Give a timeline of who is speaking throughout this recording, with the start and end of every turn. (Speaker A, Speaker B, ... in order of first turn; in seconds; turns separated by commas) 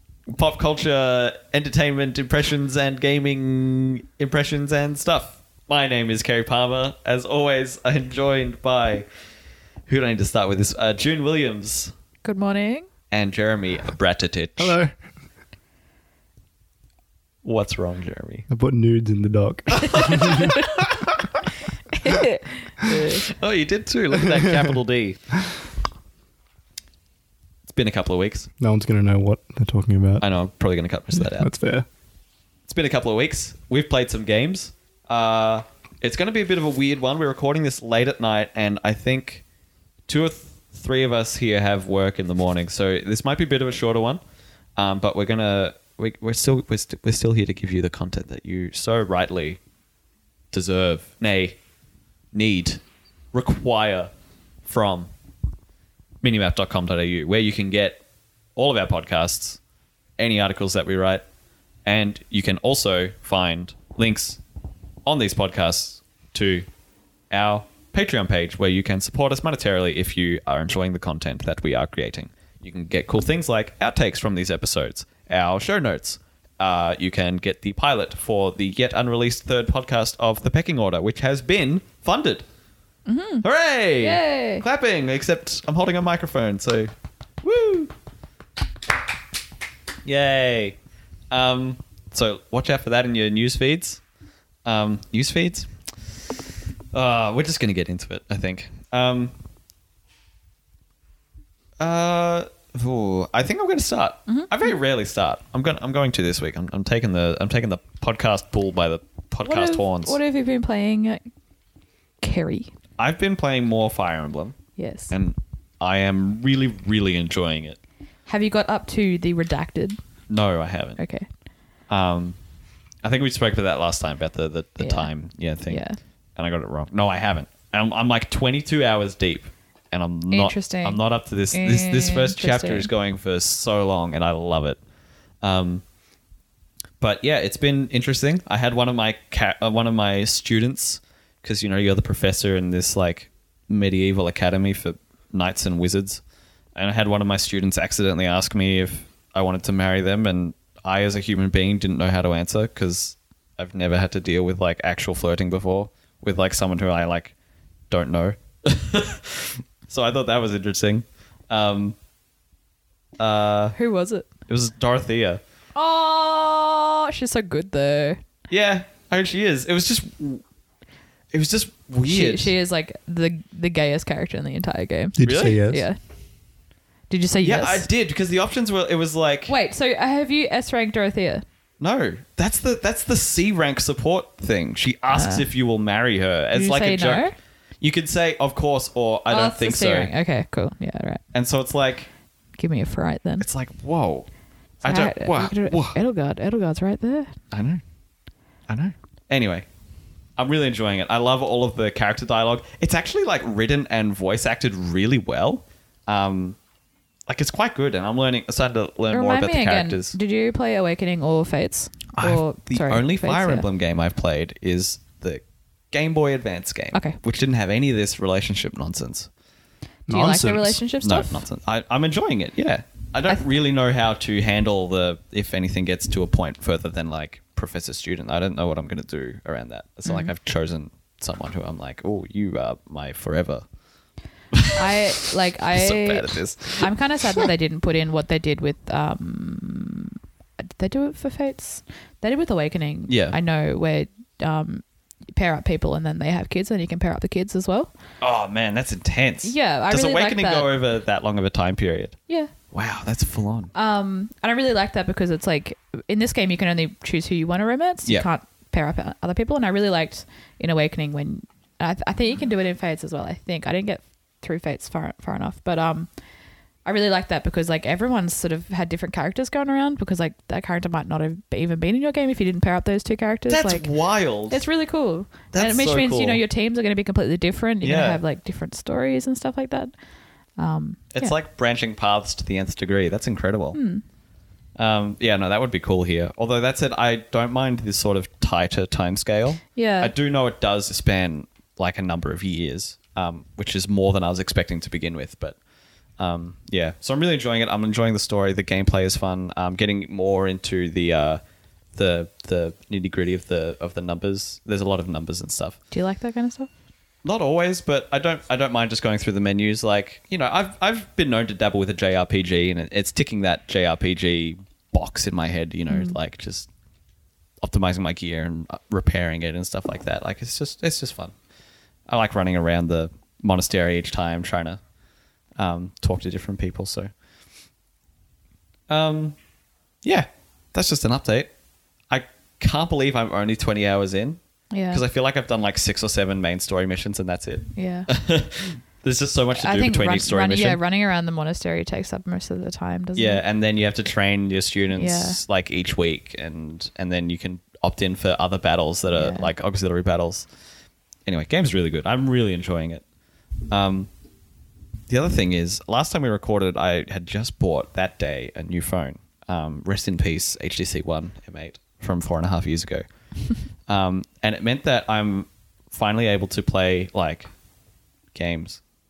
Speaker A: 0.3-9.1, Speaker A: 9.9-11.9, Speaker B: 12.2-12.9, Speaker A: 13.1-14.8, Speaker C: 14.6-14.9, Speaker A: 17.4-18.5, Speaker C: 18.5-20.8, Speaker A: 19.7-20.6, Speaker B: 20.2-20.7, Speaker B: 21.9-23.3, Speaker A: 23.1-25.2, Speaker A: 27.7-28.5, Speaker C: 28.6-30.2, Speaker A: 30.2-31.5, Speaker C: 31.1-31.9, Speaker A: 32.7-39.4, Speaker A: 40.1-44.2, Speaker A: 44.8-49.6, Speaker A: 50.5-51.6, Speaker A: 52.3-52.8, Speaker A: 53.3-54.1, Speaker A: 54.6-55.1, Speaker A: 56.2-58.0, Speaker A: 58.5-59.6, Speaker A: 60.2-61.2, Speaker A: 61.9-64.4, Speaker A: 65.0-66.7, Speaker A: 67.3-82.4, Speaker B: 83.0-83.5, Speaker A: 83.4-86.9, Speaker B: 84.0-84.6, Speaker A: 87.4-87.9, Speaker A: 90.0-90.8, Speaker A: 91.3-94.0, Speaker A: 94.6-95.7, Speaker A: 96.9-99.3, Speaker A: 101.8-110.2, Speaker B: 104.3-104.7, Speaker B: 109.4-111.2, Speaker B: 112.2-112.7, Speaker A: 113.0-114.6, Speaker B: 114.8-115.1, Speaker A: 115.1-117.8, Speaker B: 118.3-120.0, Speaker A: 120.3-121.0, Speaker B: 121.0-121.3, Speaker A: 121.9-122.4, Speaker A: 123.0-125.8, Speaker B: 124.8-125.1, Speaker B: 125.7-126.0, Speaker A: 126.3-134.8, Speaker B: 130.3-131.0, Speaker B: 131.5-132.9, Speaker A: 135.4-135.8, Speaker A: 137.0-146.2, Speaker A: 146.8-157.3, Speaker A: 157.9-161.9, Speaker A: 163.2-163.7, Speaker B: 163.8-164.3, Speaker A: 164.5-165.4, Speaker B: 165.7-168.2, Speaker A: 168.5-170.4, Speaker A: 171.3-172.5, Speaker B: 172.1-176.0, Speaker C: 175.2-175.8, Speaker A: 175.2-175.6, Speaker B: 177.1-177.9, Speaker A: 177.4-179.5, Speaker B: 179.5-181.4, Speaker A: 181.8-187.3, Speaker B: 185.1-185.4, Speaker B: 186.5-187.3, Speaker A: 187.8-190.1, Speaker B: 189.3-191.2, Speaker A: 191.3-192.1, Speaker B: 192.6-193.4, Speaker A: 193.4-194.3, Speaker A: 194.8-196.0, Speaker B: 194.8-197.3, Speaker A: 197.5-197.8, Speaker A: 198.7-199.7, Speaker A: 200.4-206.6, Speaker A: 207.3-210.2, Speaker B: 209.1-213.6, Speaker A: 212.2-219.3, Speaker C: 220.1-220.8, Speaker B: 220.1-221.4, Speaker A: 221.0-233.6, Speaker A: 234.5-236.9, Speaker B: 234.7-244.8, Speaker A: 243.1-243.3, Speaker B: 245.3-247.9, Speaker A: 248.2-252.1, Speaker B: 249.4-250.7, Speaker A: 252.7-253.7, Speaker B: 253.7-266.1, Speaker B: 266.8-273.9, Speaker A: 273.5-274.6, Speaker B: 274.5-279.9, Speaker A: 275.5-276.4, Speaker A: 277.8-278.2, Speaker B: 280.6-281.3, Speaker A: 281.1-283.8, Speaker B: 283.7-284.0, Speaker A: 284.8-295.6, Speaker B: 289.7-290.1, Speaker A: 296.2-301.4, Speaker A: 301.9-305.8, Speaker B: 305.9-306.7, Speaker A: 307.2-316.7, Speaker B: 315.9-316.1, Speaker A: 317.6-321.3, Speaker A: 322.1-324.8, Speaker A: 325.6-327.1, Speaker A: 328.9-329.4, Speaker A: 330.0-331.5, Speaker A: 332.1-334.4, Speaker B: 334.7-335.0, Speaker A: 334.9-340.8, Speaker B: 337.8-338.1, Speaker B: 339.5-343.4, Speaker A: 343.1-350.4, Speaker B: 344.9-345.4, Speaker B: 349.1-349.5, Speaker A: 351.2-353.0, Speaker A: 353.7-354.1, Speaker A: 355.1-363.0, Speaker A: 363.9-367.5, Speaker A: 368.3-368.8